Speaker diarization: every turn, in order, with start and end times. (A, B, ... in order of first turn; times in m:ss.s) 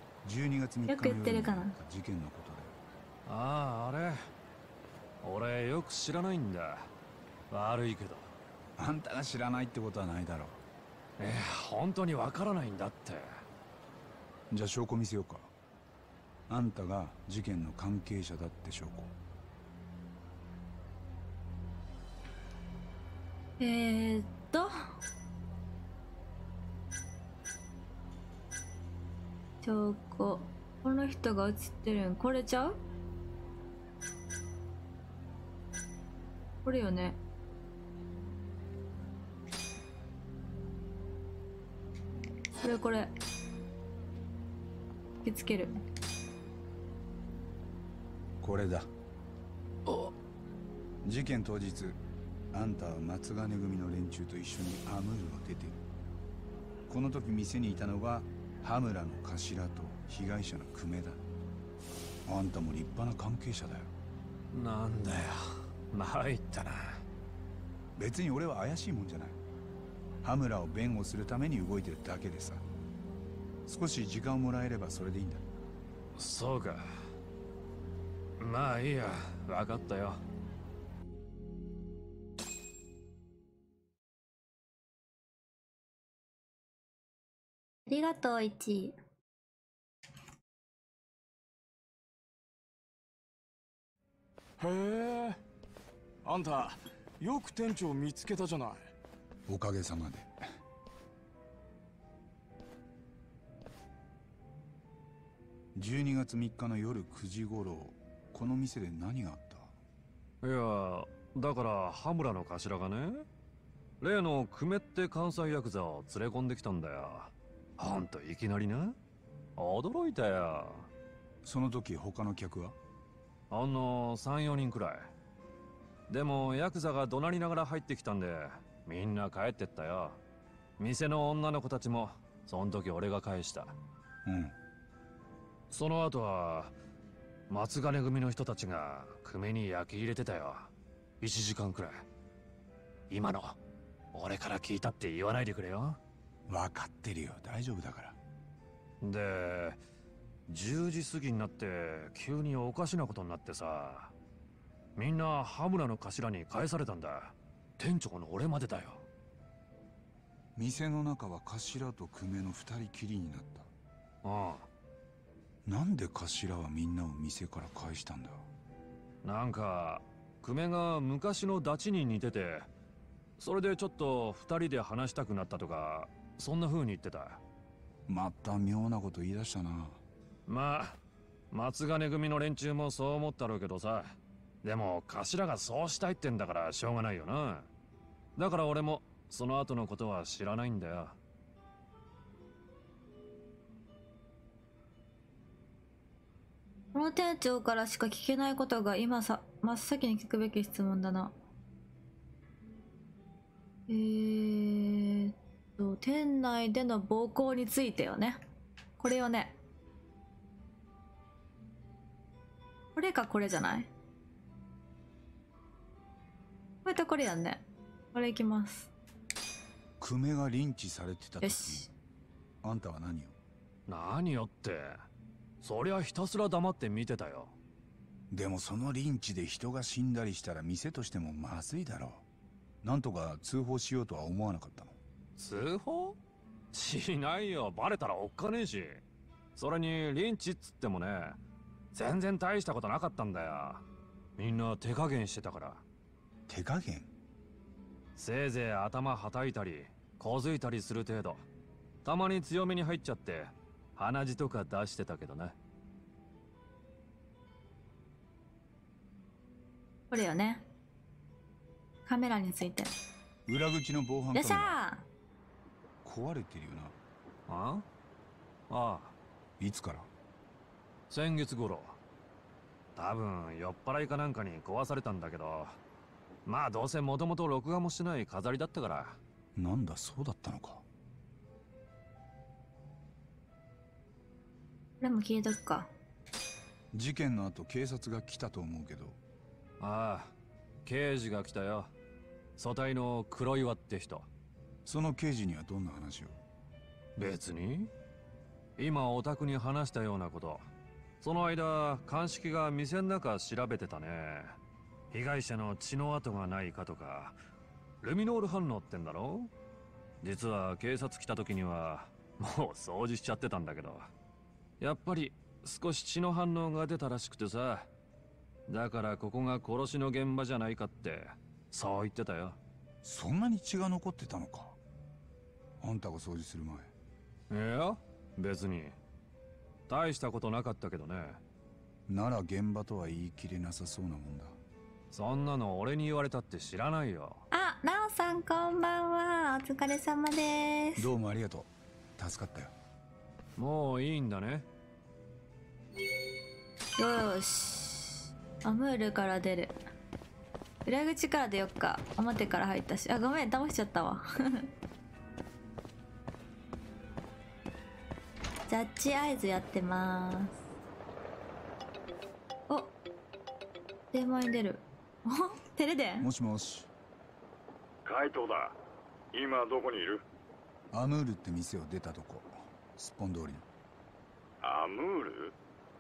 0:00.2-0:02.7 A
0:00.9-0:01.8 B
0:03.2-0:04.3 C
0:05.2-0:06.9 C
0:07.5-0:08.3 C
0:08.8-0:10.6 A
0:11.2-0:13.3 C
0:14.5-0:15.5 A
0:16.5-0:19.2 A
0:23.6-0:24.7 B
0:29.6-0:32.8 B
0:36.6-0:37.2 B
0:42.6-0:43.1 B
0:45.2-0:45.8 B
0:48.4-0:48.9 A
0:51.0-0:52.0 A
0:52.5-0:55.8 A
0:56.9-1:01.2 A
1:02.2-1:03.9 A
1:04.5-1:07.0 C
1:08.0-1:09.4 A
1:10.2-1:12.6 A
1:13.6-1:15.5 A
1:16.2-1:16.8 C
1:18.4-1:20.2 C
1:27.9-1:28.9 B
1:34.6-1:35.4 D
1:36.2-1:38.9 D
1:39.5-1:40.4 A
1:45.7-1:49.8 A
1:50.4-1:53.3 C
1:54.0-1:59.0 C
1:59.6-2:00.9 C
2:01.4-2:02.8 A
2:03.5-2:05.1 C
2:06.1-2:10.2 C
2:10.8-2:13.7 C
2:14.2-2:14.5 A
2:15.7-2:16.7 C
2:17.5-2:22.0 C
2:23.1-2:23.6 C
2:24.1-2:26.0 C
2:26.5-2:28.2 A
2:29.0-2:29.8 C
2:30.5-2:34.1 C
2:35.0-2:39.0 C
2:40.6-2:43.7 A
2:44.2-2:44.7 C
2:45.6-2:48.5 A
2:49.2-2:52.7 C
2:53.4-2:57.4 C
2:58.1-3:00.0 A
3:00.5-3:01.0 C
3:01.5-3:07.7 C
3:08.4-3:11.2 C
3:16.9-3:21.3 B
3:23.9-3:28.4 B
3:29.0-3:29.6 B
3:33.0-3:33.9 B
3:36.8-3:37.6 B
3:38.1-3:38.9 B
3:40.0-3:41.9 A
3:41.4-3:41.9 B
3:42.6-3:43.4 A
3:43.9-3:45.0 C
3:45.6-3:47.5 C
3:48.3-3:52.2 A
3:52.8-3:54.9 A
3:55.4-3:56.2 C
3:56.7-3:59.0 C
3:59.6-4:01.4 C
4:01.9-4:03.8 C
4:04.4-4:05.8 C
4:06.5-4:07.1 A
4:08.2-4:11.4 C
4:12.0-4:15.6 C
4:20.1-4:20.6 B
4:22.0-4:22.9 B
4:23.4-4:24.8 A
4:24.3-4:25.0 B
4:26.0-4:26.9 A
4:27.5-4:27.8 C
4:28.7-4:29.2 C
4:29.6-4:30.1 A
4:31.1-4:32.0 C
4:33.0-4:35.8 C
4:36.4-4:39.2 C
4:39.6-4:40.8 A
4:45.0-4:45.9 B
4:46.9-4:49.2 A
4:49.8-4:50.3 C
4:50.8-4:51.9 C
4:52.6-4:54.3 C
4:54.8-4:56.4 A
4:57.2-4:57.9 C
4:58.8-5:00.6 C
5:01.2-5:04.6 C
5:05.1-5:07.4 C
5:08.0-5:09.5 C
5:10.2-5:14.1 C
5:14.8-5:17.9 C
5:18.7-5:22.6 C
5:23.0-5:24.8 A
5:25.8-5:26.9 A
5:27.5-5:29.0 C
5:29.9-5:31.4 C
5:32.1-5:34.6 A
5:35.1-5:37.4 C
5:37.5-5:41.1 B
5:41.0-5:42.7 A
5:43.6-5:44.6 C
5:47.0-5:49.8 B
5:50.9-5:54.7 B
5:58.7-6:00.6 B
6:02.7-6:02.9 B
6:04.1-6:06.3 B
6:06.2-6:06.9 A
6:08.0-6:08.8 E
6:09.3-6:10.2 E
6:10.9-6:13.6 A
6:14.6-6:15.5 E